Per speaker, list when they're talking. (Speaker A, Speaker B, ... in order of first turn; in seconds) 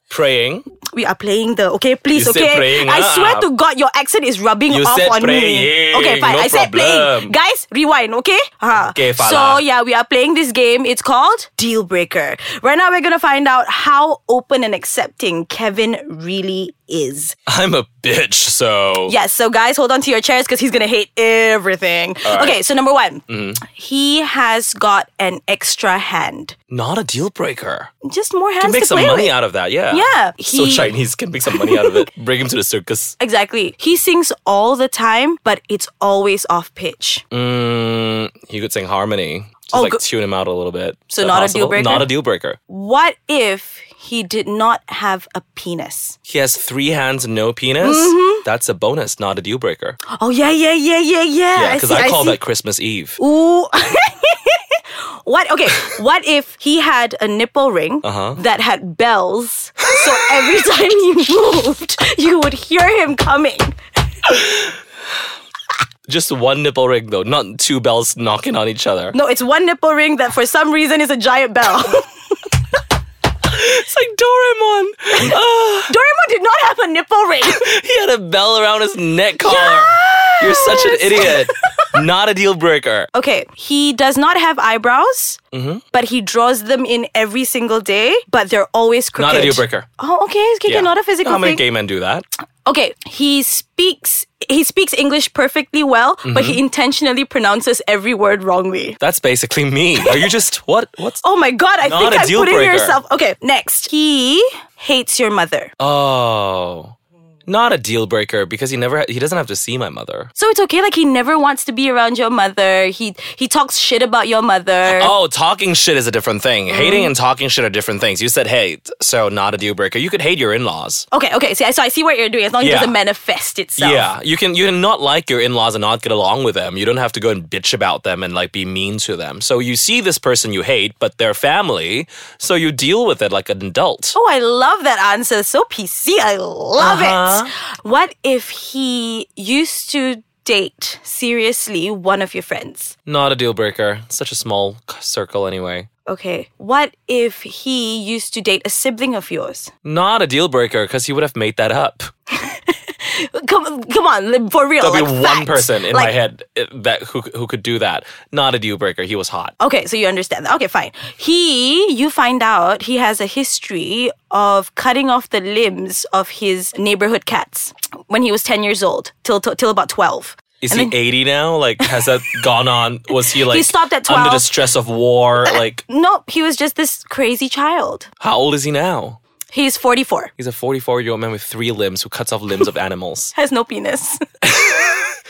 Speaker A: 0.1-0.6, 2.1-3.5, 4.7-7.3, 8.8-9.6, 17.5-19.1, 22.2-22.6, 23.3-23.6, 26.7-27.9, 28.6-33.1, 37.3-42.6, 46.3-50.0, 51.5-53.2, 58.0-58.4, 64.3-64.6, 66.1-69.1, 73.4-75.9, 77.4-83.1, 85.5-85.8, 89.2-89.9, 90.7-92.2, 96.2-96.6, 99.0-101.2, 101.8-103.0, 105.8-106.9, 107.5-110.3, 114.8-121.0, 122.6-122.9, 123.8-134.2, 136.8-137.5, 143.1-145.9, 149.8-152.1, 154.8-159.5, 170.6-175.8, 178.2-179.2, 180.4-183.3, 184.4-185.1
Speaker B: 0.9-17.3, 19.1-26.5, 28.0-29.3, 29.9-30.9, 31.5-32.0, 33.2-37.2, 39.7-40.0, 41.1-42.1, 42.7-46.2, 47.8-48.4, 50.1-52.4, 53.2-63.7, 69.1-72.5, 75.9-77.6, 79.4-81.9, 83.1-85.4, 85.9-91.6, 92.6-99.0, 101.2-105.7, 110.4-115.1, 116.7-117.1, 121.1-124.1, 134.1-142.9, 146.1-149.7, 152.3-156.2, 159.6-170.9, 173.4-174.5, 175.5-178.1, 179.5-180.3, 183.3-184.5